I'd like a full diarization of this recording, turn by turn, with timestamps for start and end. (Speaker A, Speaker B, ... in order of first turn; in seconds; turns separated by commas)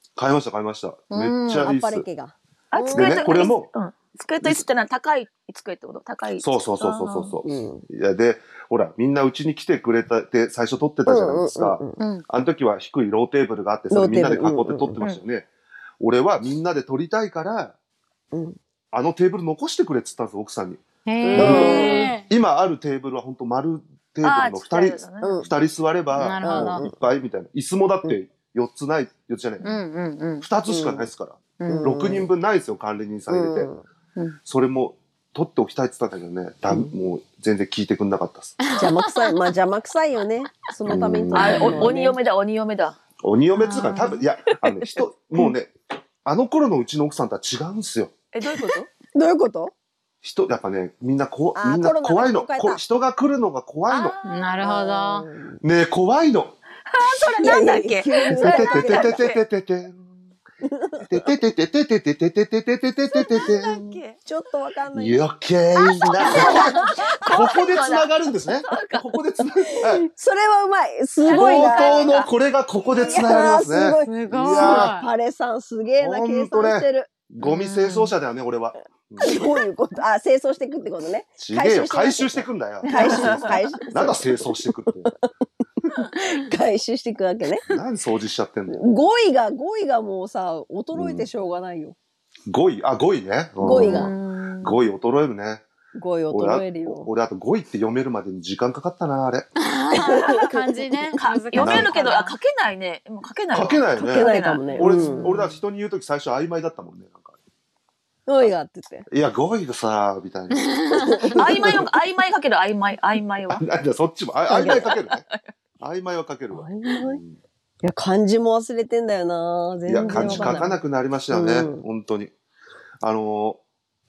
Speaker A: 0.2-2.1, Speaker B: 1.1-1.7, Speaker C: 1.6-3.3, Speaker D: 2.7-7.4, Speaker A: 2.9-3.7, Speaker A: 6.4-15.5, Speaker C: 7.4-7.8, Speaker C: 11.1-12.0, Speaker B: 12.0-12.2, Speaker C: 13.9-15.0, Speaker A: 16.0-17.7, Speaker A: 18.9-20.8, Speaker B: 21.1-22.3, Speaker C: 21.2-22.1, Speaker A: 21.3-29.8, Speaker D: 24.2-25.4, Speaker C: 25.2-25.5, Speaker B: 26.1-26.9, Speaker C: 26.4-27.0, Speaker B: 29.6-30.5, Speaker A: 30.4-33.7, Speaker C: 30.7-31.1, Speaker B: 31.6-32.0, Speaker C: 31.7-32.3, Speaker C: 33.3-33.8, Speaker A: 34.5-38.6, Speaker C: 36.7-36.9, Speaker B: 38.6-39.3, Speaker C: 38.8-42.2, Speaker A: 40.9-41.9, Speaker D: 41.3-43.0, Speaker A: 43.2-45.7, Speaker B: 43.6-44.2, Speaker D: 43.7-45.5, Speaker A: 46.2-48.1, Speaker D: 48.3-48.9, Speaker C: 49.1-49.7, Speaker A: 50.2-54.1, Speaker C: 51.5-52.8, Speaker D: 53.9-54.5, Speaker B: 54.3-55.3, Speaker C: 54.6-55.6, Speaker A: 55.6-56.6, Speaker D: 56.9-59.4, Speaker C: 57.4-59.2, Speaker A: 58.3-60.0, Speaker C: 60.7-61.0, Speaker A: 61.0-63.9, Speaker D: 63.1-64.2, Speaker C: 64.2-65.2, Speaker A: 64.9-70.1, Speaker D: 65.8-69.0, Speaker C: 66.2-67.2, Speaker C: 69.7-72.2, Speaker D: 71.2-72.3, Speaker A: 71.3-74.9, Speaker D: 72.9-73.3, Speaker C: 73.0-77.1, Speaker B: 74.0-75.1, Speaker A: 76.0-79.3, Speaker B: 77.4-78.1, Speaker C: 79.2-85.2, Speaker A: 81.4-85.1, Speaker D: 82.8-83.7, Speaker C: 86.2-87.7, Speaker A: 87.7-88.8, Speaker C: 88.7-92.0, Speaker A: 90.9-91.3, Speaker A: 92.5-94.1, Speaker C: 93.6-94.1, Speaker B: 93.6-94.8, Speaker A: 94.6-95.7, Speaker C: 96.0-97.1, Speaker A: 96.3-99.5, Speaker B: 99.7-102.3, Speaker C: 100.0-100.3, Speaker D: 100.1-100.5, Speaker D: 101.2-104.7, Speaker A: 101.6-102.0, Speaker A: 103.5-107.4, Speaker C: 104.0-105.4, Speaker B: 104.8-105.6, Speaker C: 108.3-109.1, Speaker A: 109.1-110.8, Speaker C: 110.9-111.8, Speaker D: 111.3-113.6, Speaker A: 113.5-115.2, Speaker C: 114.5-114.9, Speaker D: 114.7-115.4, Speaker A: 115.8-117.4, Speaker C: 116.5-117.2, Speaker C: 117.8-120.8, Speaker A: 119.9-122.3, Speaker B: 120.0-120.7, Speaker C: 121.3-121.8, Speaker A: 123.0-123.6